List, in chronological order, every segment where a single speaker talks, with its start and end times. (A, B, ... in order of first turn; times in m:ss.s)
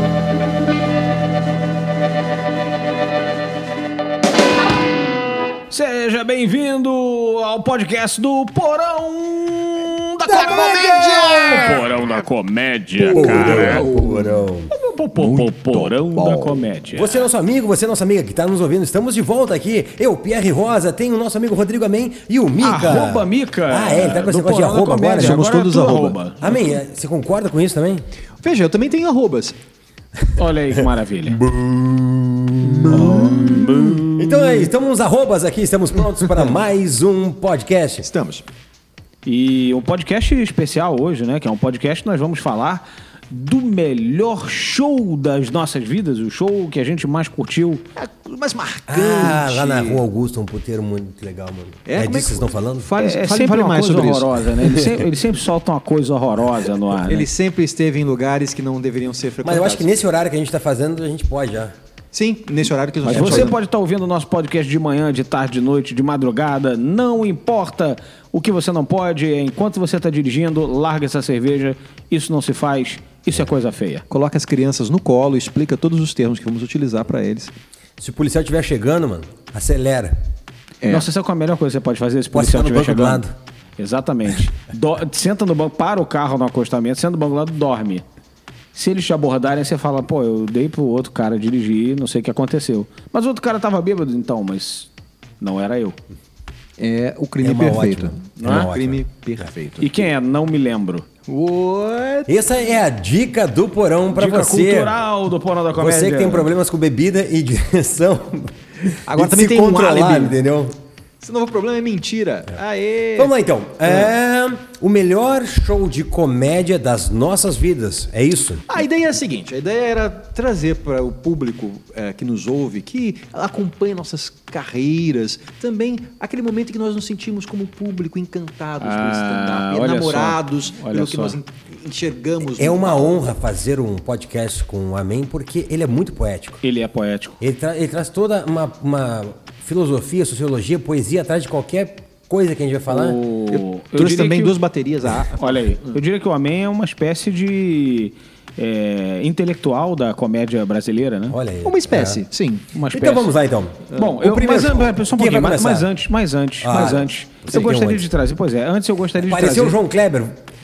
0:05.7-0:13.8 A
0:10.3-0:11.8 B
0:10.4-0:11.7 C
0:13.0-0:14.5 C
0:13.0-0:14.7 B
0:14.7-0:17.1 A
0:15.1-0:16.7 C
0:16.9-0:25.4 B
0:22.6-0:26.5 A
0:25.2-0:26.2 C
0:26.4-0:28.0 B
0:28.4-0:29.6 C
0:30.2-0:30.8 B
0:30.4-0:31.4 A
0:31.4-0:38.1 B
0:32.9-0:34.7 A
0:38.0-0:38.4 C
0:39.2-0:47.8 A
0:48.0-0:50.0 C
0:48.9-0:52.9 B
0:51.9-0:54.5 C
0:53.0-0:57.3 A
0:57.0-0:59.9 C
0:59.4-1:01.7 B
1:02.1-1:03.5 C
1:03.0-1:14.0 A
1:03.1-1:03.5 B
1:14.1-1:17.5 C
1:18.0-1:20.2 B
1:20.8-1:21.1 C
1:20.8-1:23.2 A
1:22.3-1:23.3 B
1:23.8-1:28.0 A
1:28.7-1:36.0 A
1:36.8-1:40.1 C
1:37.4-1:39.4 B
1:38.4-1:38.7 A
1:39.8-1:41.1 A
1:41.3-1:42.3 C
1:42.3-1:44.9 B
1:44.1-1:46.5 A
1:45.7-1:50.7 B
1:49.0-1:50.4 C
1:51.2-1:53.3 C
1:53.2-1:58.7 B
1:53.8-1:54.1 C
1:58.7-2:13.2 C
2:08.8-2:11.4 A
2:12.5-2:16.6 B
2:16.6-2:17.4 A
2:17.4-2:23.2 B
2:22.9-2:24.5 A
2:23.5-2:25.9 C
2:25.2-2:31.4 A
2:31.3-2:32.2 B
2:31.6-2:32.7 C
2:32.7-2:33.3 A
2:32.9-2:35.9 B
2:33.9-2:39.8 A
2:36.6-2:38.1 B
2:39.2-2:40.4 B